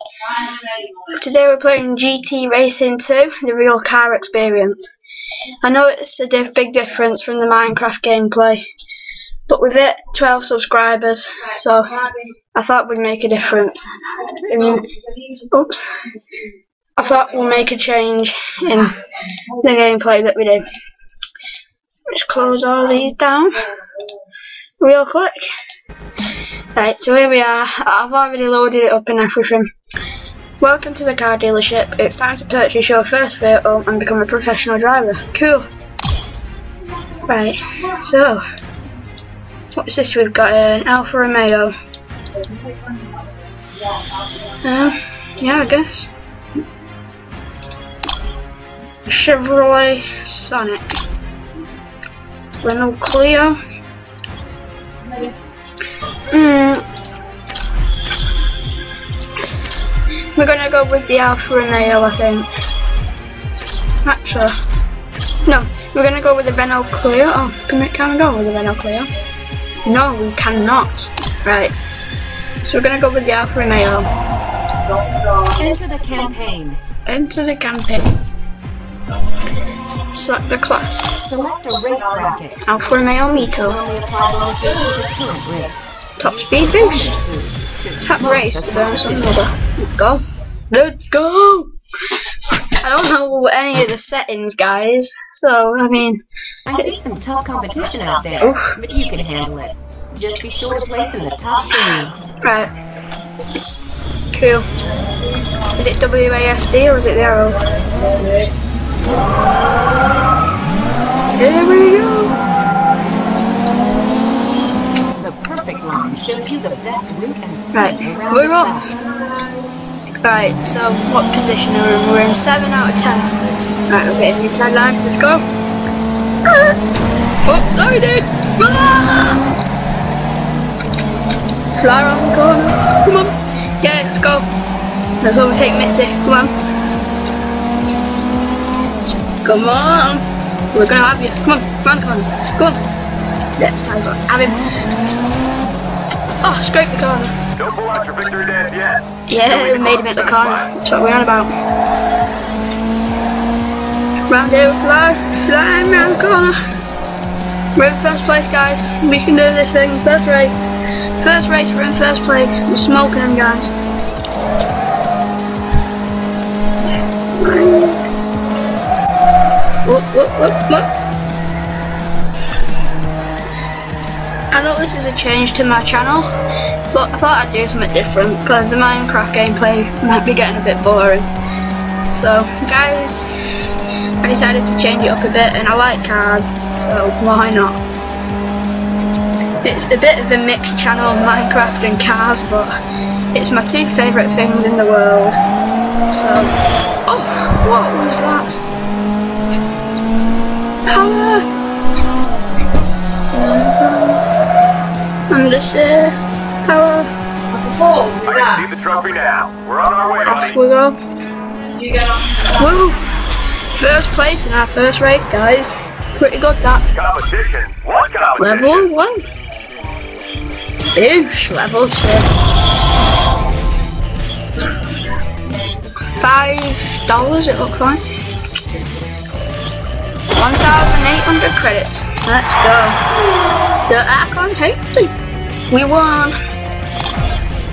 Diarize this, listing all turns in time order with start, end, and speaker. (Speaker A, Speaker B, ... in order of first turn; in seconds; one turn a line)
Speaker A: 0.9-4.9
Speaker A: 5.6-8.6
Speaker A: 9.5-16.1
Speaker A: 17.0-19.0
Speaker A: 19.6-20.6
Speaker A: 22.1-23.6
Speaker A: 24.8-25.3
Speaker A: 26.7-29.7
Speaker A: 30.6-35.7
Speaker A: 37.3-38.4
Speaker A: 39.7-41.7
Speaker A: 44.6-46.1
Speaker A: 49.0-50.9
Speaker A: 52.6-53.6
Speaker A: 56.3-56.8
Speaker A: 60.4-62.5
Speaker A: 64.0-64.5
Speaker A: 65.4-69.1
Speaker A: 69.8-71.7
Speaker A: 72.6-74.1
Speaker B: 75.4-76.8
Speaker A: 77.0-78.0
Speaker A: 80.1-81.1
Speaker B: 81.2-82.6
Speaker A: 82.6-83.8
Speaker B: 83.5-89.4
Speaker A: 86.2-87.2
Speaker A: 88.0-91.7
Speaker A: 92.7-96.2
Speaker B: 96.7-102.2
Speaker A: 98.4-98.8
Speaker A: 102.4-102.7
Speaker A: 104.3-104.7
Speaker A: 105.7-108.3
Speaker A: 111.3-112.4
Speaker B: 115.2-118.9
Speaker A: 117.7-118.9
Speaker A: 120.2-123.3
Speaker A: 123.9-125.4
Speaker A: 127.4-129.4
Speaker A: 131.7-134.5
Speaker A: 135.2-136.5
Speaker A: 139.4-142.8
Speaker A: 143.6-144.6
Speaker A: 146.4-147.3
Speaker C: 147.6-150.7
Speaker A: 149.3-151.5
Speaker A: 154.3-156.5
Speaker A: 157.8-163.7
Speaker A: 167.4-168.0
Speaker A: 169.8-170.9
Speaker A: 174.5-176.3
Speaker A: 176.9-181.3
Speaker A: 182.1-183.3
Speaker A: 184.2-187.8
Speaker A: 189.6-192.7
Speaker A: 193.3-195.4
Speaker A: 196.1-196.5
Speaker A: 197.1-198.5
Speaker A: 200.9-201.5
Speaker A: 203.3-204.2
Speaker A: 205.3-207.1
Speaker C: 208.2-210.5
Speaker A: 210.2-211.0
Speaker A: 212.3-213.0
Speaker A: 213.7-216.9
Speaker C: 216.9-218.8
Speaker A: 218.4-219.2
Speaker A: 220.9-222.3
Speaker A: 226.1-228.0
Speaker A: 230.3-233.0
Speaker A: 233.9-235.1
Speaker A: 235.7-236.3